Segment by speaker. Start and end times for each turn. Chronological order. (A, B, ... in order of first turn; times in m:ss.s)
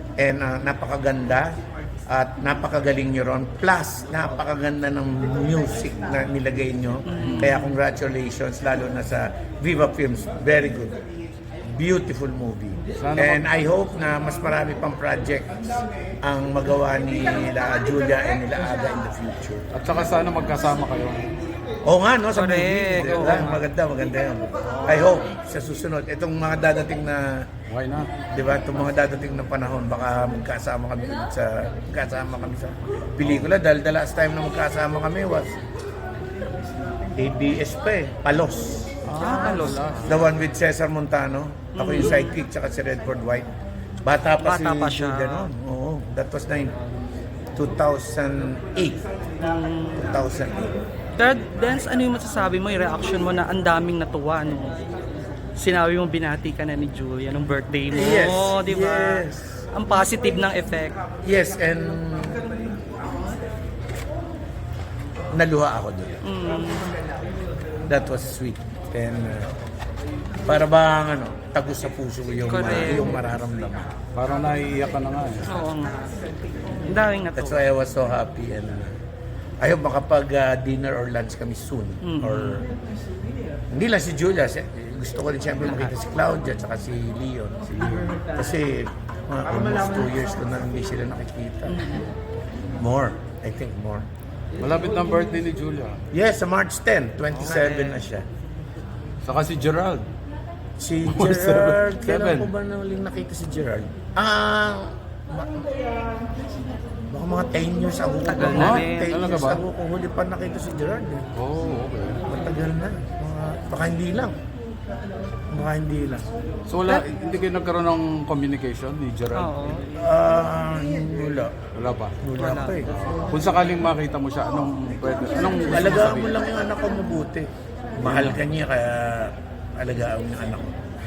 0:00.2-0:01.6 A
0:02.1-0:11.0 A
0:07.0-0:07.7 B
0:11.7-0:19.7 A
0:13.0-0:13.4 C
0:19.7-0:21.3 C
0:21.8-0:27.5 A
0:22.3-0:23.6 B
0:23.0-0:23.3 C
0:27.7-0:28.1 C
0:28.3-0:35.6 A
0:33.2-0:33.5 C
0:37.2-0:39.1 A
0:39.0-0:40.3 C
0:39.1-0:40.0 B
0:40.0-0:43.5 A
0:41.7-0:42.3 B
0:44.0-0:46.7 A
0:44.4-0:45.5 B
0:47.5-0:49.0 A
0:49.4-0:50.2 B
0:50.0-0:50.7 A
0:51.2-0:54.8 B
0:55.6-1:01.0 B
0:57.9-0:59.6 A
1:01.2-1:02.4 A
1:05.3-1:06.2 A
1:06.2-1:06.9 B
1:07.9-1:09.5 A
1:10.4-1:13.9 A
1:12.4-1:13.1 B
1:14.1-1:15.5 C
1:15.4-1:15.9 B
1:16.8-1:17.6 B
1:17.4-1:19.0 A
1:19.6-1:22.7 A
1:22.0-1:22.6 B
1:23.7-1:32.0 A
1:25.6-1:25.9 B
1:31.7-1:32.1 B
1:32.8-1:34.1 A
1:34.6-1:36.0 C
1:36.1-1:38.2 A
1:37.3-1:38.0 B
1:39.2-1:40.0 C
1:40.8-1:45.7 A
1:41.0-1:42.5 C
1:47.1-1:51.3 A
1:48.2-1:49.2 B
1:48.5-1:49.6 C
1:51.4-1:52.2 C
1:52.2-1:54.3 A
1:55.5-1:56.2 A
1:56.7-1:59.8 C
1:59.3-1:59.8 B
2:00.0-2:01.5 A
2:01.7-2:02.2 C
2:02.2-2:02.9 A
2:02.4-2:02.9 B
2:02.9-2:06.3 C
2:05.7-2:07.5 A
2:08.0-2:10.7 A
2:08.0-2:08.4 C